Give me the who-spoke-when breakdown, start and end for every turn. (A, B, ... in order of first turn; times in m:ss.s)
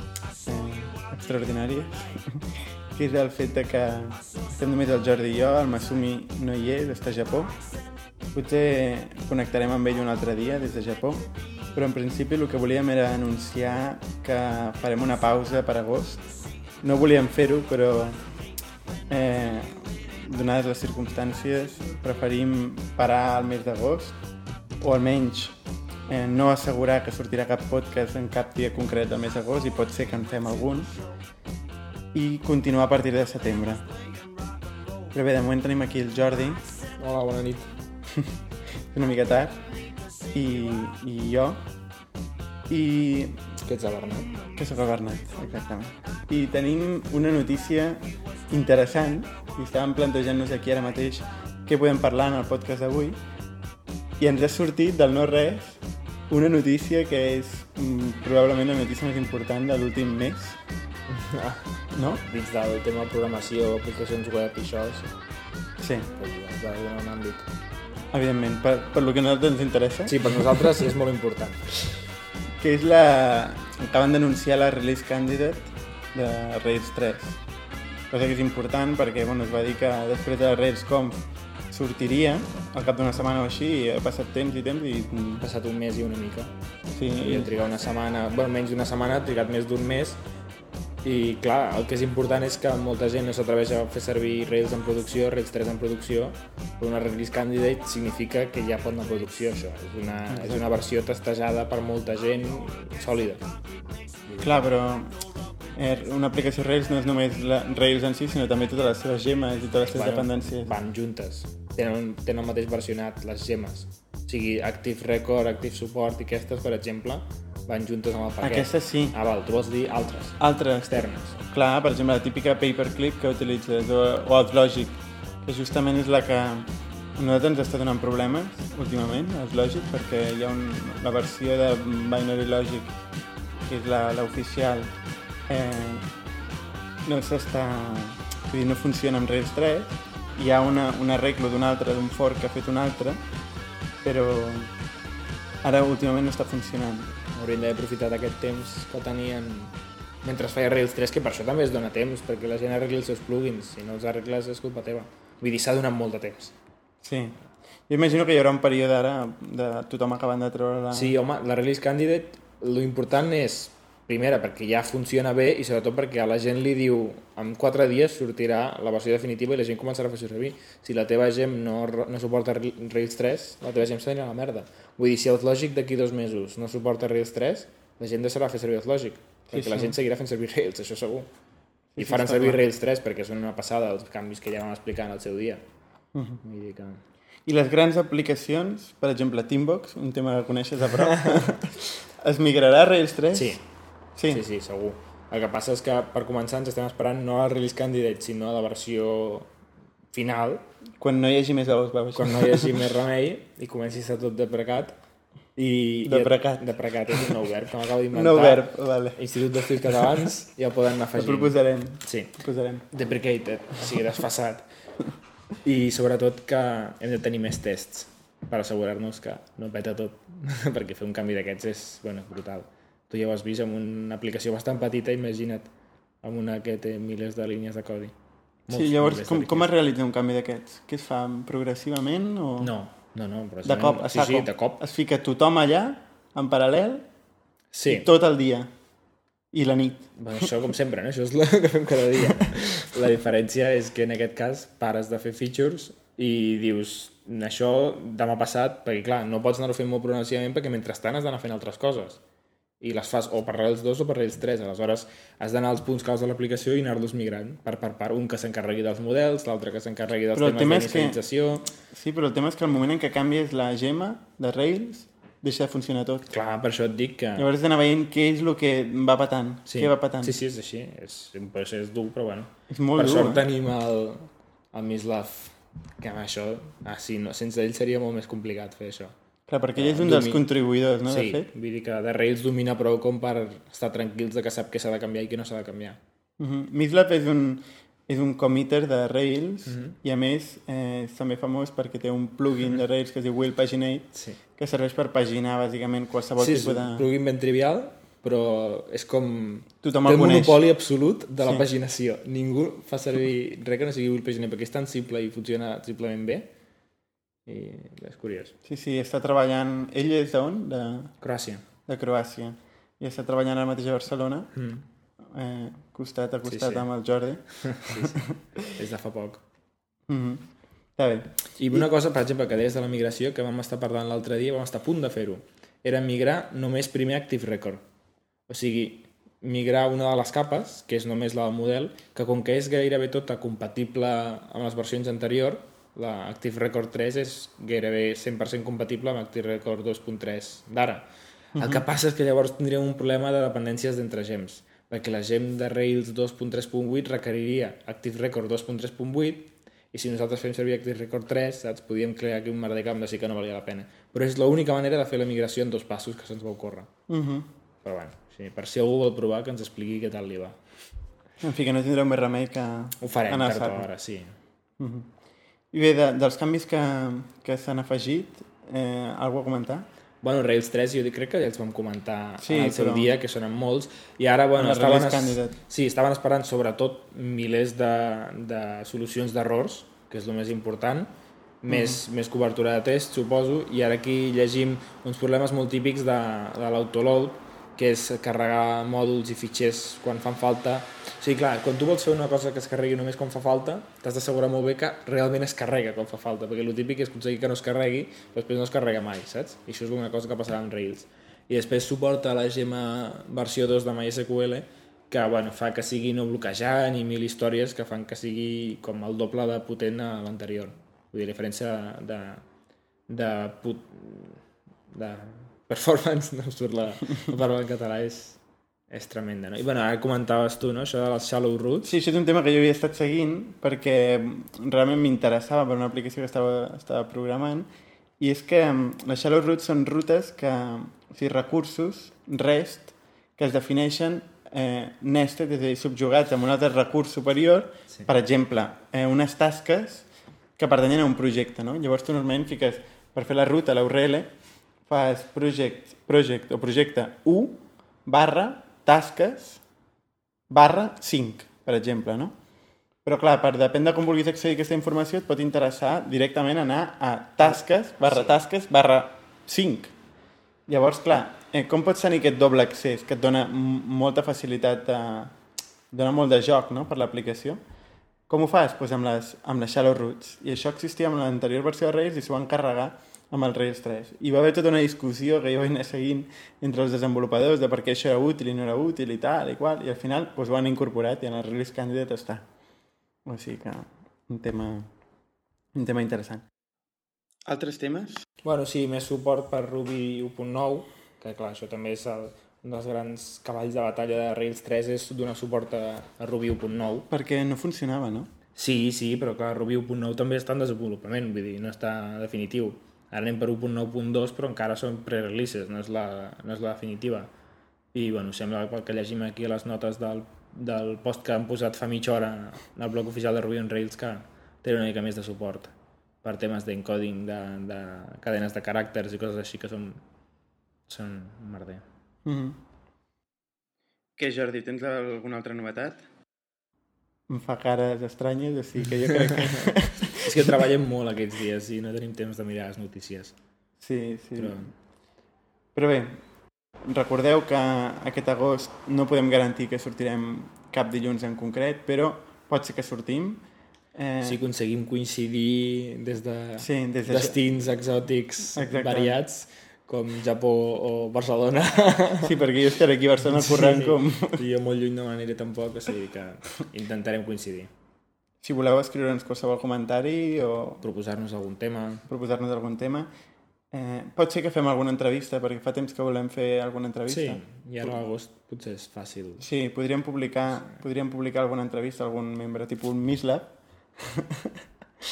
0:00.4-0:07.5 A
0:08.3-0:16.2 A
0:16.8-0:18.2 A
0:19.1-0:24.2 A
0:24.8-0:25.6 A
0:26.1-0:30.9 A
0:32.1-0:33.8 A
0:35.1-0:36.6 A
0:37.0-0:37.7 B
0:38.9-0:39.6 A
0:40.3-0:41.6 A
0:42.7-0:43.4 A
0:43.6-0:44.3 B
0:44.6-0:53.2 A
0:54.2-1:00.6 A
1:01.1-1:01.7 B
1:02.0-1:02.2 A
1:02.2-1:05.1 B
1:05.8-1:06.1 A
1:06.1-1:07.5 B
1:08.1-1:10.7 A
1:10.1-1:11.9 B
1:12.6-1:17.4 A
1:18.1-1:25.4 A
1:25.4-1:26.5 B
1:27.0-1:27.5 A
1:27.2-1:30.2 B
1:31.0-1:43.4 B
1:40.3-1:40.7 A
1:44.3-1:44.6 B
1:44.4-1:45.1 A
1:45.8-1:50.7 A
1:49.9-2:01.4 B
1:58.4-1:59.2 A
2:00.4-2:12.9 A
2:13.7-2:14.9 A
2:15.5-2:16.1 A
2:17.0-2:23.2 A
2:24.0-2:24.7 A
2:25.6-2:27.1 A
2:27.3-2:36.5 B
2:37.0-2:41.2 A
2:40.9-3:01.3 B
2:59.5-3:00.0 A
3:02.0-3:02.6 A
3:02.0-3:05.6 B
3:06.1-3:06.4 A
3:06.4-3:07.0 B
3:07.4-3:13.6 A
3:13.3-3:13.6 B
3:14.2-3:14.4 A
3:14.3-3:19.5 B
3:20.1-3:20.6 B
3:21.0-3:22.8 A
3:22.1-3:24.9 B
3:25.6-3:32.4 B
3:26.0-3:27.4 A
3:28.1-3:30.1 A
3:31.1-3:32.8 A
3:32.9-3:34.6 B
3:35.6-3:45.7 B
3:46.2-3:48.1 B
3:48.7-3:49.7 B
3:48.7-3:52.7 A
3:52.6-3:54.8 B
3:53.6-3:57.0 A
3:57.7-3:58.1 B
3:57.9-3:58.7 A
3:59.5-4:00.5 A
4:00.2-4:12.2 B
4:12.8-4:21.7 B
4:20.3-4:21.2 A
4:21.9-4:26.3 A
4:26.3-4:27.5 B
4:27.4-4:30.4 A
4:29.7-4:39.1 B
4:32.7-4:33.4 A
4:39.5-4:41.5 A
4:39.8-4:40.4 B
4:41.1-4:46.0 B
4:46.4-4:57.1 A
4:49.6-4:50.0 B
4:54.1-4:54.4 B
4:56.4-5:06.5 B
4:59.8-5:00.6 A
5:07.5-5:08.5 B
5:08.6-5:11.1 A
5:11.2-5:11.6 B
5:11.9-5:14.5 A
5:14.5-5:14.8 B
5:15.3-5:18.3 A
5:16.4-5:16.9 B
5:17.6-5:18.2 B
5:18.7-5:19.4 B
5:20.1-5:20.4 A
5:21.0-5:21.9 A
5:21.6-5:27.8 B
5:28.5-5:56.9 B
5:41.6-5:41.8 A
5:57.1-5:57.5 A
5:57.8-6:00.6 B
6:01.4-6:03.9 A
6:03.0-6:04.3 B
6:04.8-6:05.1 A
6:05.7-6:09.8 A
6:10.2-6:21.1 B
6:12.4-6:13.1 A
6:14.5-6:15.6 A
6:21.6-6:52.4 B
6:21.7-6:22.0 A
6:53.1-6:54.4 B
6:54.9-6:58.4 B
6:58.9-7:01.9 B
7:01.8-7:07.7 A
7:08.2-7:20.0 A
7:20.6-7:24.3 A
7:24.9-7:29.6 A
7:30.5-7:32.3 A
7:33.0-7:39.9 A
7:38.0-7:38.3 B
7:40.7-7:45.3 A
7:45.9-7:47.6 A
7:48.3-8:02.4 A
8:03.2-8:04.9 A
8:05.7-8:06.4 A
8:07.5-8:08.2 A
8:08.4-8:17.1 B
8:17.1-8:18.3 A
8:18.6-8:27.3 B
8:27.9-8:35.7 B
8:36.2-8:40.0 B
8:40.9-8:41.8 B
8:42.2-8:42.6 A
8:44.2-8:46.0 A
8:47.3-8:50.2 A
8:50.2-8:53.3 B
8:53.8-8:54.7 A
8:54.4-8:54.7 B
8:55.7-8:56.2 A
8:56.9-9:03.4 A
9:03.9-9:04.4 A
9:04.2-9:12.5 B
9:06.6-9:07.4 A
9:08.5-9:09.2 A
9:12.2-9:14.4 A
9:13.2-9:17.7 B
9:18.4-9:20.8 A
9:20.8-9:22.0 B
9:22.1-9:23.1 A
9:23.7-9:28.0 A
9:27.1-9:29.5 B
9:29.4-9:34.6 A